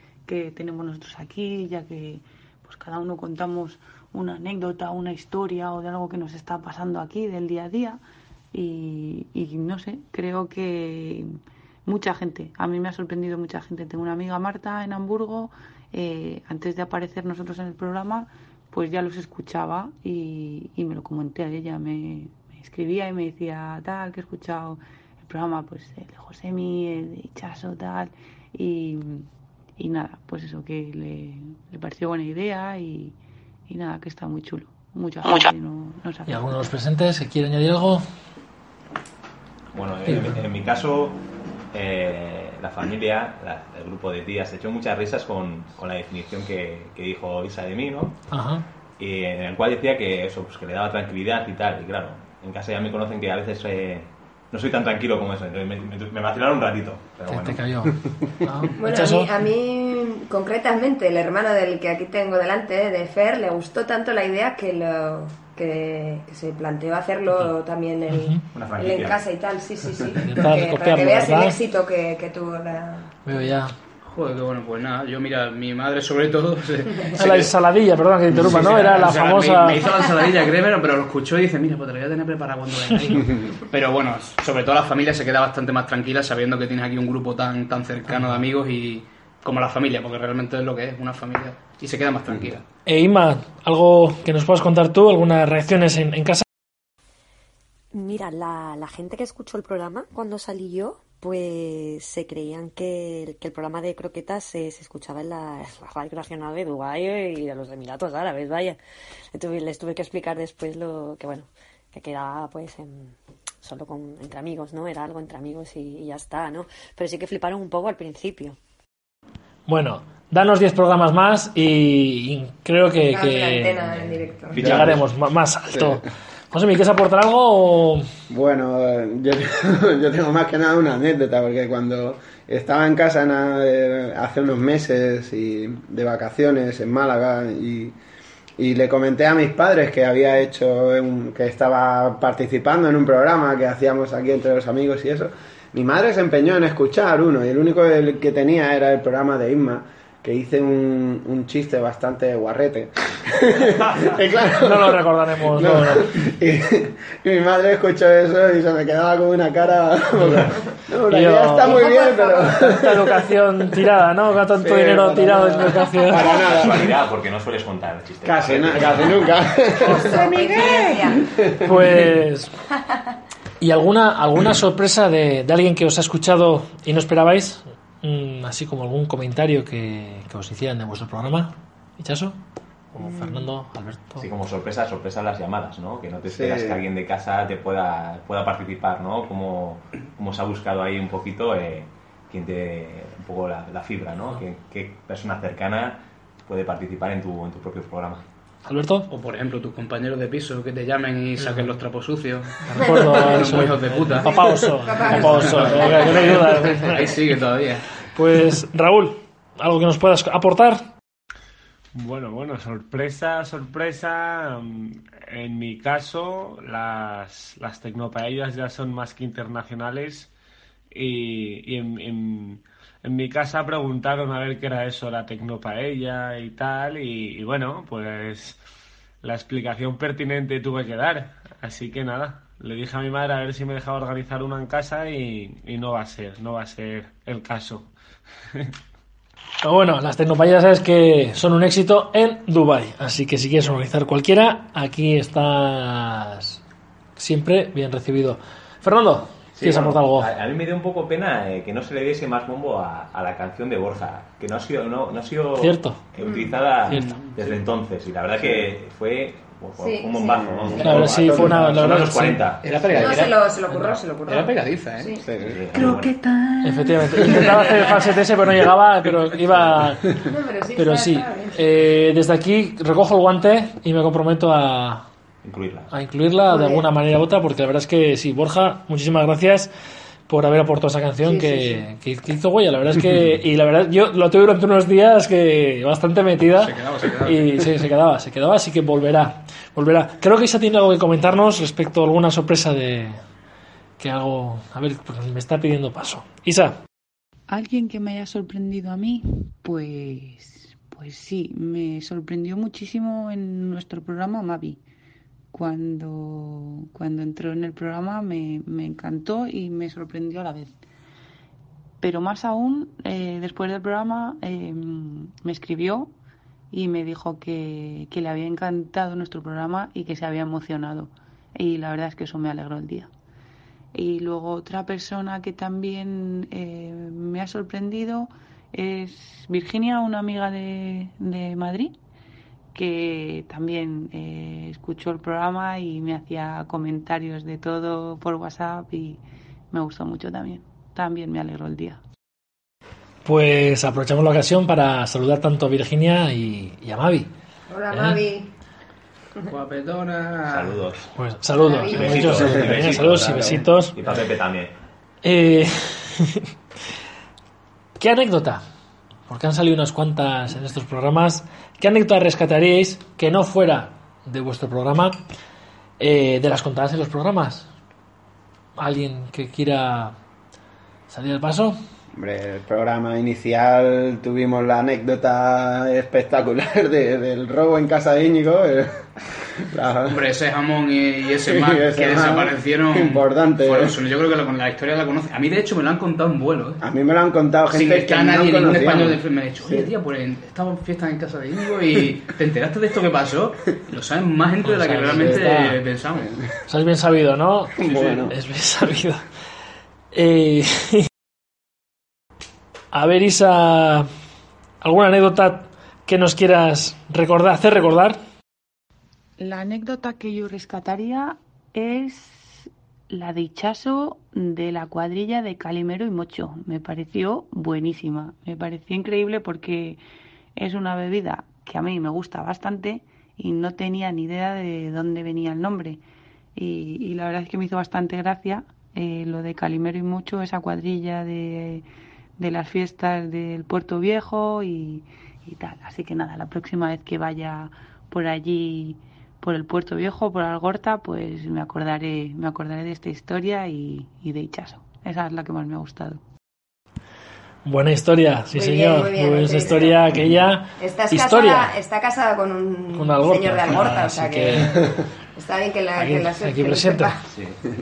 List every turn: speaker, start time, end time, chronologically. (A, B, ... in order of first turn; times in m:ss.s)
0:00.3-0:08.0 A
0:08.5-0:29.3 A
0:29.8-0:33.1 A
0:33.7-0:36.7 A
0:36.3-0:38.0 B
0:39.7-0:41.2 C
0:41.7-0:48.2 C
0:48.3-0:48.6 B
0:49.0-0:57.9 C
0:57.3-0:59.3 B
0:58.8-1:13.4 D
1:08.1-1:08.4 B
1:08.5-1:09.2 C
1:10.2-1:11.6 B
1:13.2-1:13.8 B
1:14.0-1:17.5 E
1:17.2-1:19.8 B
1:18.3-1:32.6 E
1:32.9-1:36.4 B
1:37.9-1:48.8 F
1:49.3-1:58.6 F
1:59.7-2:04.0 B
2:03.1-2:04.8 D
2:04.5-2:05.0 C
2:04.5-2:08.0 B
2:04.6-2:05.0 G
2:08.3-2:17.9 G
2:18.6-2:43.2 G
2:34.6-2:36.2 B
2:41.1-2:46.4 B
2:41.6-2:42.5 D
2:44.5-2:46.9 G
2:46.2-2:49.3 C
2:48.2-2:51.6 G
2:49.8-2:51.2 D
2:51.6-2:52.5 B
2:53.6-3:02.4 B
3:02.9-3:04.2 B
3:04.2-3:18.2 C
3:06.3-3:06.8 G
3:18.6-3:19.1 B
3:19.1-3:24.4 E
3:21.4-3:21.7 B
3:22.6-3:27.0 B
3:24.5-3:26.2 D
3:25.0-3:27.8 E
3:28.1-3:30.9 B
3:31.9-3:40.3 H
3:40.9-3:48.6 H
3:49.2-3:57.9 H
3:59.6-4:06.6 B
4:07.2-4:10.3 B
4:09.5-4:23.2 C
4:15.6-4:16.0 B
4:16.2-4:16.5 D
4:16.9-4:17.1 B
4:16.9-4:17.6 E
4:19.8-4:21.0 D
4:20.4-4:22.0 G
4:20.8-4:22.4 B
4:22.6-4:25.2 E
4:23.0-4:25.2 D
4:25.2-4:25.6 G
4:25.4-4:26.1 C
4:25.7-4:27.5 E
4:26.6-4:30.1 B
4:30.2-4:31.6 D
4:30.8-4:35.0 B
4:35.4-4:35.9 C
4:35.9-4:39.7 B
4:36.5-4:36.8 D
4:40.3-4:53.2 B
4:41.2-4:41.8 D
4:46.6-4:47.5 E
4:54.0-4:56.8 B
4:57.5-5:04.8 A
5:05.5-5:10.7 A
5:12.0-5:16.1 A
5:16.7-5:23.1 A
5:23.9-5:31.9 A
5:32.7-5:42.0 A
5:43.2-5:47.3 B
5:47.7-5:48.5 D
5:47.9-5:48.2 B
5:49.5-5:50.8 E
5:50.5-5:51.1 C
5:51.2-5:54.0 B
5:51.6-5:52.5 D
5:51.9-5:54.7 C
5:55.2-5:56.5 B
5:58.0-5:58.6 B
5:59.3-6:05.2 B
6:06.0-6:07.7 B
6:08.8-6:10.1 B
6:11.1-6:11.8 B
6:12.1-6:20.2 G
6:20.1-6:26.8 E
6:21.4-6:24.0 G
6:26.8-6:29.9 G
6:27.7-6:36.3 E
6:34.6-6:35.8 B
6:36.7-6:39.2 B
6:37.8-6:38.3 G
6:37.9-6:38.2 E
6:40.1-6:41.1 B
6:42.9-6:44.1 B
6:44.8-6:48.2 B
6:49.4-7:00.0 A
7:00.6-7:06.0 A
7:06.6-7:11.8 A
7:12.4-7:26.2 A
7:27.7-7:31.7 B
7:28.5-7:30.2 D
7:30.8-7:37.3 D
7:32.9-7:34.8 B
7:36.0-7:37.1 B